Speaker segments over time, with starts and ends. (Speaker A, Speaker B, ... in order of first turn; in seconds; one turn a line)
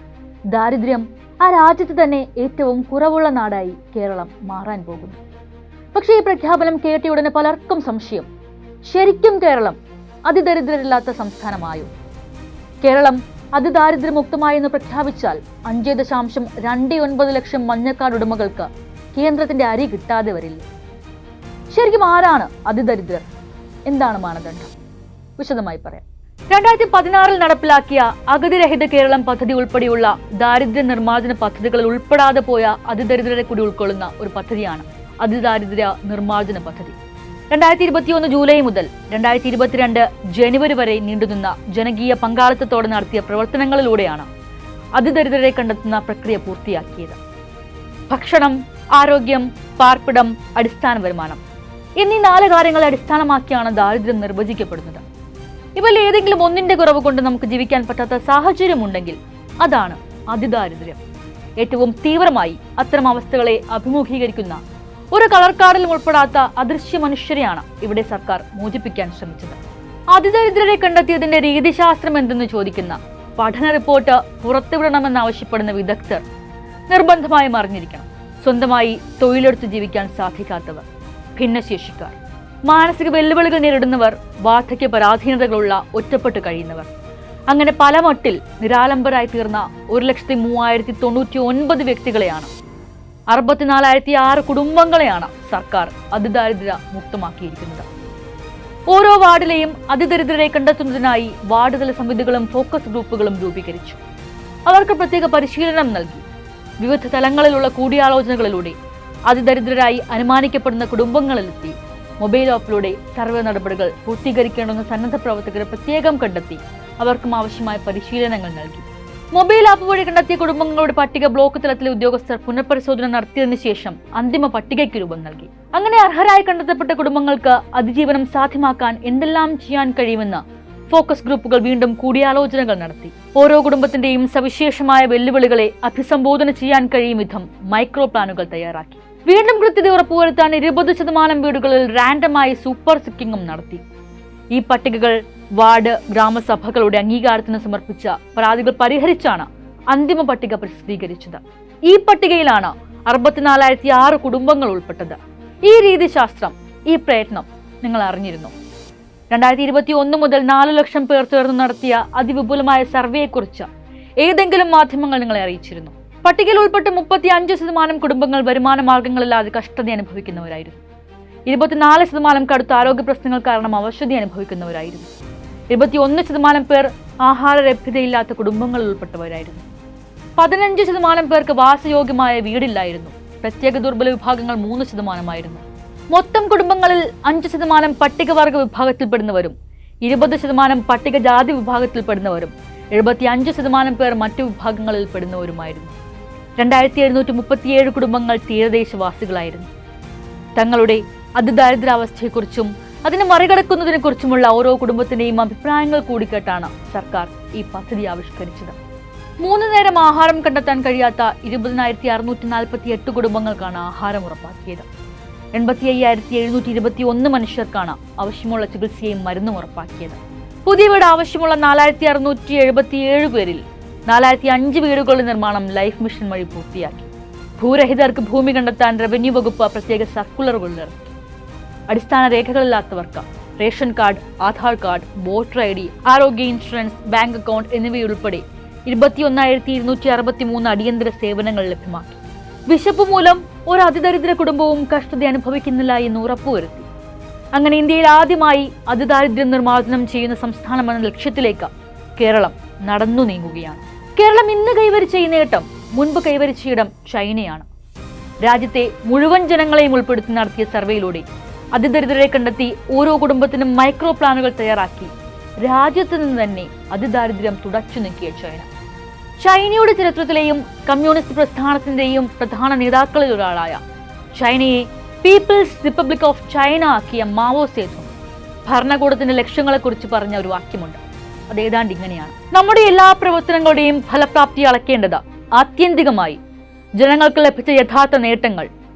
Speaker A: 0.5-5.2
Speaker A: 5.9-8.3
Speaker A: 8.8-11.9
Speaker A: 12.8-20.7
Speaker A: 21.7-23.2
Speaker A: 23.9-24.7
Speaker A: 25.4-37.0
Speaker A: 37.5-44.3
Speaker A: 45.0-47.2
Speaker A: 48.1-51.4
Speaker A: 52.0-55.0
Speaker A: 55.8-61.0
Speaker A: 61.6-69.6
Speaker A: 70.1-76.2
Speaker A: 76.9-80.8
Speaker A: 81.3-86.9
Speaker A: 87.5-92.5
Speaker A: 93.3-97.9
Speaker A: 98.9-104.0
Speaker A: 104.7-106.2
Speaker A: 106.8-108.8
Speaker A: 109.3-143.8
Speaker A: 144.5-158.5
Speaker A: 159.3-163.7
Speaker A: 164.2-170.8
Speaker A: 171.5-175.1
Speaker A: 175.7-179.7
Speaker A: 180.4-196.0
Speaker A: 196.6-199.7
Speaker A: 200.6-208.8
Speaker A: 209.4-214.9
Speaker A: 215.5-231.2
Speaker A: 231.9-246.9
Speaker A: 247.5-257.7
Speaker A: 258.4-268.7
Speaker A: 269.4-273.8
Speaker A: 274.3-278.1
Speaker A: 278.7-286.4
Speaker A: 287.0-288.7